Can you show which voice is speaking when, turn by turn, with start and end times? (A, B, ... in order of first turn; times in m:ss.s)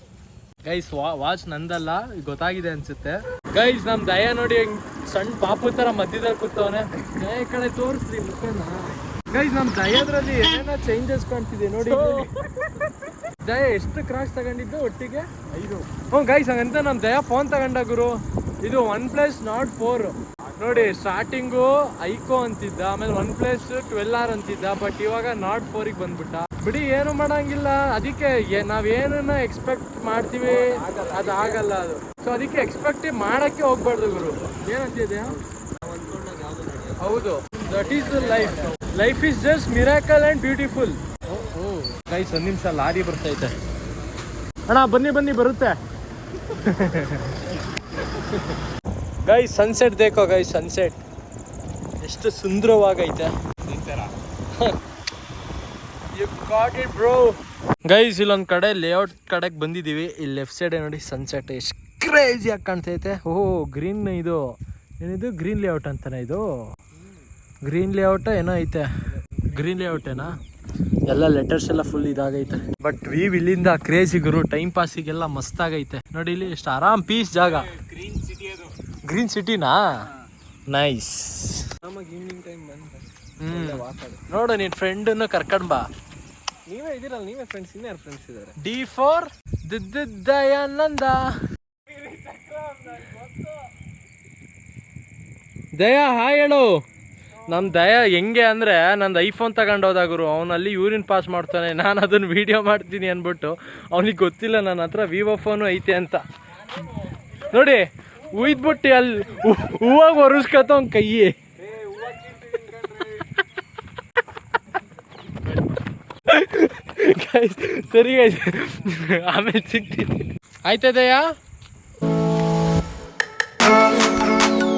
0:00.6-0:12.3 A
0:13.3-0:35.4 A
0:30.5-0:31.6 B
0:35.8-0:37.0 B
0:37.0-0:43.6 A
0:37.9-0:38.5 B
0:44.7-0:45.8 A
0:46.4-0:48.6 A
0:49.2-0:51.0 A
0:52.0-0:54.8 A
0:56.1-1:06.4 A
1:07.6-1:08.9 A
1:09.4-1:10.4 A
1:11.0-1:17.8 A
1:17.9-1:18.6 B
1:19.0-1:20.1 A
1:20.7-1:21.7 A
1:21.8-1:24.2 B
1:23.4-1:25.9 A
1:26.6-1:28.6 B
1:28.6-1:31.4 A
1:32.3-1:33.1 B
1:35.8-1:36.8 A
1:37.5-1:53.3 A
1:55.3-1:55.7 A
1:56.2-2:01.3 A